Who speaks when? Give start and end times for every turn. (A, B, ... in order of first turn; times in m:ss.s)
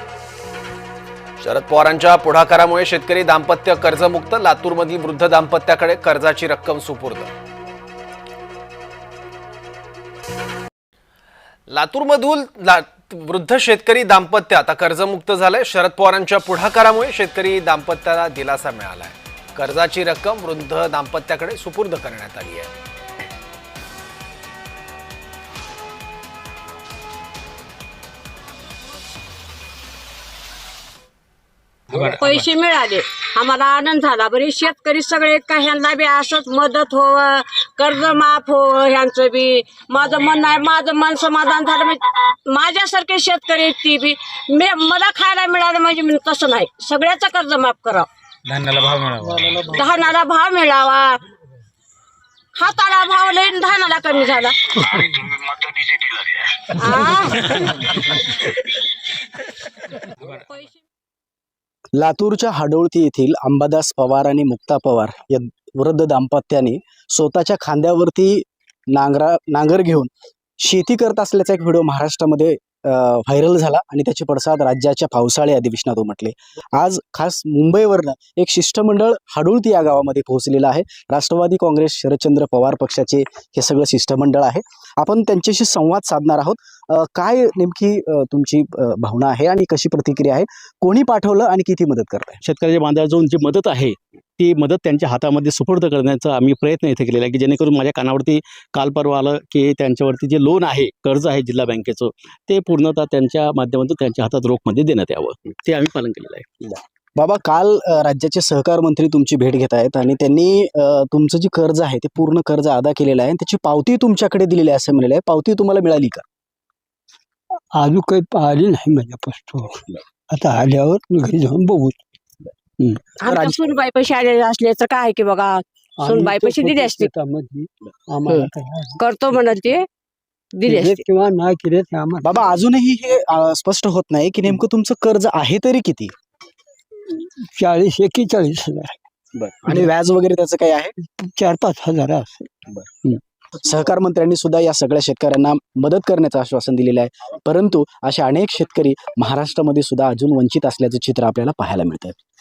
0:01.4-0:07.3 A
0:11.7-0:22.7 A
0:31.9-0:32.4 B
0:32.0-0:48.1 C
0:48.5-0:49.7 B
0:49.7-0:51.2 C
0:52.6-0:54.8 C
0:56.7-0:57.6 C
0:57.5-0:58.0 B
1:00.2-1:00.8 C
1:01.9-1:10.1 D
1:10.6-1:32.4 D
1:32.4-1:46.8 E
1:47.2-1:56.2 D
1:57.7-2:02.0 F
2:03.2-2:07.1 C
2:03.3-2:03.6 D
2:06.0-2:09.0 F
2:09.0-2:09.8 C
2:10.5-2:11.0 C
2:10.7-2:12.4 F
2:12.2-2:16.1 D
2:17.4-2:19.0 F
2:19.3-2:20.9 D
2:21.2-2:22.5 F
2:23.5-2:32.2 D